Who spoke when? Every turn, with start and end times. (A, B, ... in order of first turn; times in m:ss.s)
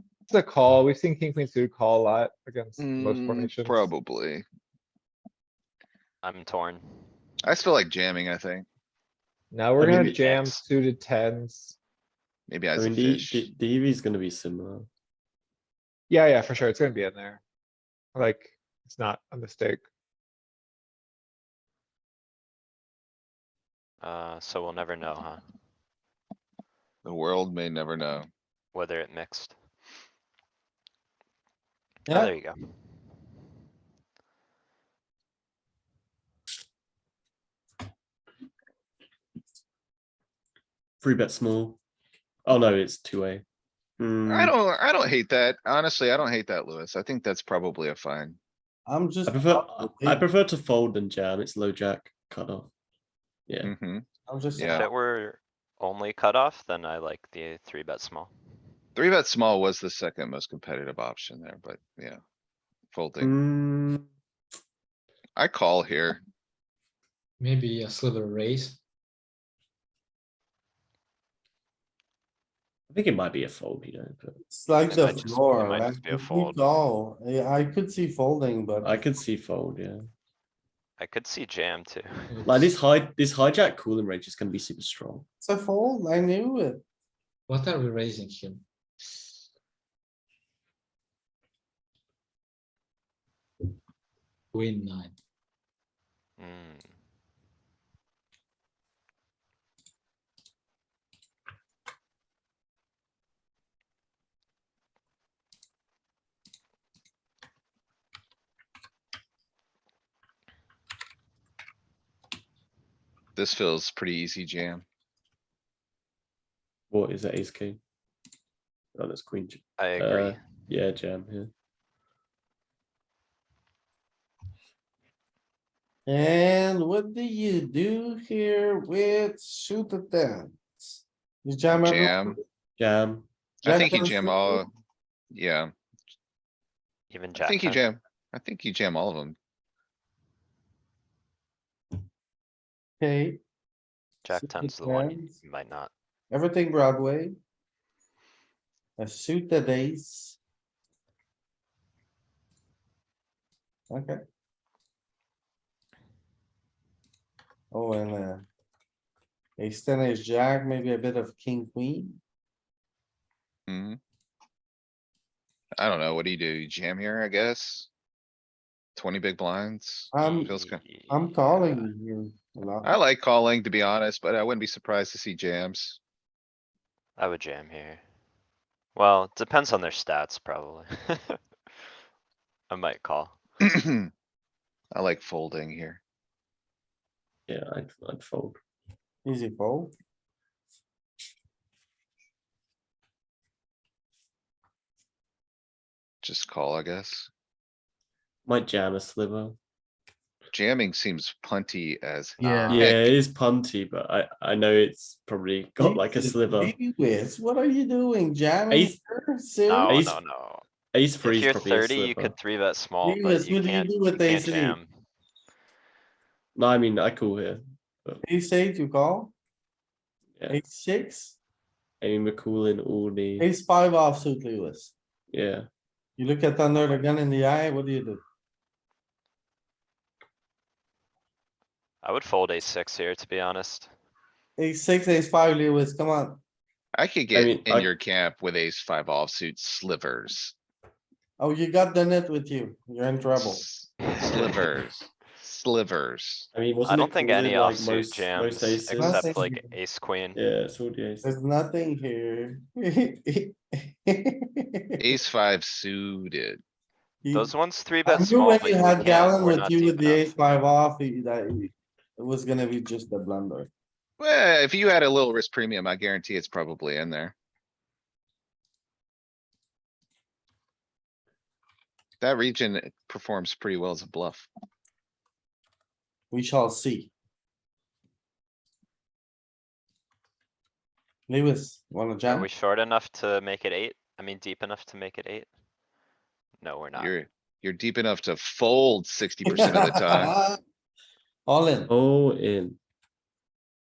0:00.3-0:03.9 A
0:02.8-0:04.4 B
0:06.2-0:06.8 C
0:07.4-0:08.6 B
0:09.5-0:11.8 A
0:10.0-0:10.6 C
0:12.5-0:13.5 B
0:12.7-0:14.9 D
0:16.1-0:17.4 A
0:18.1-0:19.8 A
0:24.0-0:25.4 C
0:27.0-0:28.3 B
0:28.7-0:29.6 C
0:32.1-0:32.3 E
0:32.1-0:33.0 C
0:41.0-0:41.8 D
0:42.4-0:43.4 D
0:44.0-0:44.5 D
0:44.3-0:48.4 B
0:48.8-0:50.2 E
0:49.2-0:52.7 D
0:53.5-0:53.7 D
0:53.6-0:54.9 B
0:54.3-0:54.9 E
0:54.6-0:58.3 C
0:59.0-1:02.2 B
1:02.9-1:03.3 B
1:03.2-1:04.1 D
1:05.4-1:06.2 B
1:07.4-1:08.7 F
1:12.9-1:14.4 D
1:14.5-1:19.0 E
1:14.8-1:16.6 C
1:14.9-1:15.3 D
1:18.8-1:20.0 D
1:21.0-1:22.4 C
1:22.4-1:25.2 D
1:25.4-1:26.8 E
1:27.5-1:28.6 F
1:34.6-1:35.1 F
1:36.4-1:36.9 C
1:53.4-1:54.8 B
1:56.9-1:57.8 D
1:58.9-2:01.5 D
1:59.8-2:00.4 C
2:06.0-2:12.4 E
2:11.7-2:12.4 B
2:12.8-2:13.2 D
2:13.6-2:14.6 E
2:13.6-2:14.7 B
2:15.3-2:15.7 B
2:17.1-2:17.8 C
2:17.3-2:19.4 B
2:23.0-2:23.4 E
2:24.2-2:25.9 C
2:24.3-2:25.4 E
2:26.3-2:27.3 E
2:29.0-2:30.4 E
2:33.9-2:34.2 E
2:37.7-2:38.4 E
2:39.6-2:42.2 E
2:43.7-2:44.0 B
2:45.8-2:47.9 B
2:49.0-2:50.8 B
2:50.1-2:50.5 E
2:50.2-2:51.8 C
2:51.1-2:53.0 E
2:52.8-2:56.0 B
2:57.2-2:58.0 C
2:58.9-3:01.4 C
3:02.7-3:03.4 C
3:03.7-3:04.1 B
3:04.9-3:06.0 B
3:07.5-3:08.6 D
3:09.2-3:09.9 E
3:16.2-3:17.3 B
3:18.4-3:19.6 D
3:20.5-3:23.1 B
3:22.4-3:22.8 C
3:22.7-3:26.7 D
3:25.8-3:30.0 E
3:28.7-3:29.0 D
3:29.7-3:30.6 C
3:29.9-3:30.2 D
3:30.9-3:32.3 D
3:31.2-3:34.9 C
3:33.0-3:34.8 E
3:36.5-3:38.2 D
3:38.2-3:39.3 E
3:40.5-3:41.4 E
3:42.0-3:43.4 D
3:43.4-3:44.9 E
3:45.3-3:45.7 D
3:46.2-3:48.2 E
3:46.8-3:47.1 C
3:52.0-3:53.9 C
3:54.6-3:56.4 E
3:56.9-4:00.5 B
3:57.3-3:57.9 D
4:01.4-4:03.6 E
4:03.3-4:06.5 B
4:04.1-4:04.6 C
4:06.5-4:09.2 D
4:06.8-4:10.4 C
4:09.0-4:09.7 E
4:10.3-4:11.2 D
4:11.2-4:15.0 E
4:15.0-4:16.6 B
4:17.2-4:17.5 E
4:17.3-4:20.4 C
4:18.0-4:23.7 E
4:18.8-4:19.2 B
4:24.2-4:27.3 B
4:32.2-4:34.5 B
4:36.3-4:37.1 E
4:41.3-4:42.5 E
4:42.3-4:45.5 C
4:46.6-4:47.1 C
4:47.0-4:50.3 B
4:49.5-4:50.6 E
4:51.5-4:51.9 E
4:51.9-4:52.8 D